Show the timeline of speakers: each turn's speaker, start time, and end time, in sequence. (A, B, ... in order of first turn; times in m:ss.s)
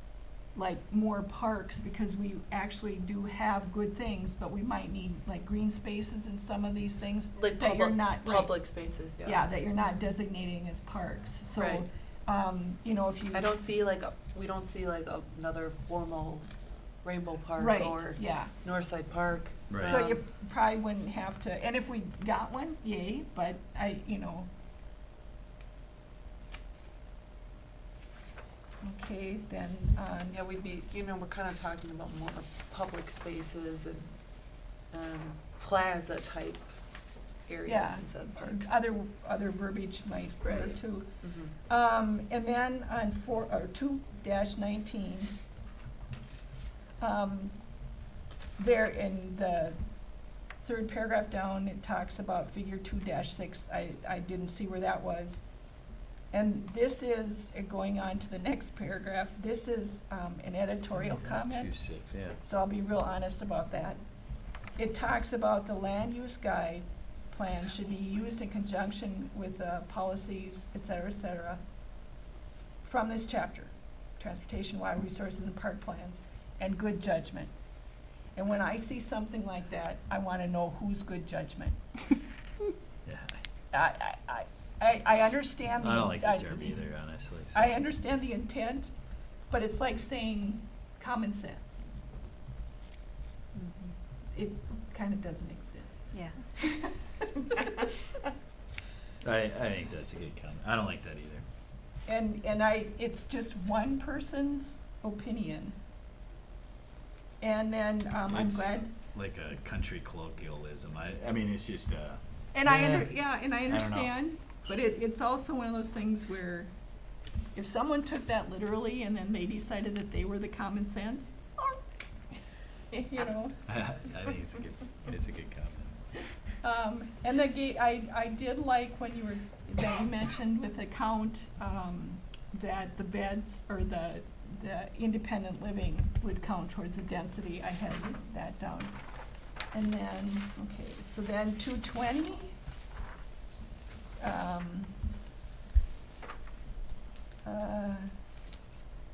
0:00.5-0:08.5 A
0:07.3-0:09.5 B
0:09.2-0:13.5 A
0:11.5-0:11.8 B
0:13.3-0:16.4 B
0:17.0-0:20.2 B
0:17.6-0:18.5 A
0:19.7-0:20.0 C
0:19.8-0:24.5 A
0:28.8-0:30.4 A
0:30.3-0:34.1 B
0:34.9-0:36.7 B
0:37.5-0:38.8 B
0:37.6-0:41.1 A
0:40.4-0:41.5 B
0:41.6-0:45.3 A
0:47.0-0:47.6 A
0:48.6-0:49.8 A
0:50.6-0:55.4 A
0:56.3-1:01.7 A
1:00.9-1:02.4 C
1:02.4-1:04.0 A
1:04.8-1:11.6 A
1:12.8-1:17.5 A
1:18.3-1:21.8 A
1:23.0-1:23.4 C
1:23.7-1:26.8 A
1:25.8-1:27.9 C
1:27.5-1:28.9 A
1:29.5-1:31.8 A
1:33.6-1:33.9 B
1:34.3-1:36.1 A
1:36.6-1:36.9 A
1:39.2-1:41.4 C
1:42.1-1:45.8 A
1:47.4-1:48.9 A
1:48.3-1:53.1 C
1:52.5-1:56.7 A
1:53.6-1:54.1 C
1:57.5-2:01.8 A
2:02.9-2:03.6 A
2:03.7-2:06.0 C
2:06.6-2:18.9 A
2:19.7-2:22.5 A
2:24.2-2:24.9 A
2:27.4-2:28.1 A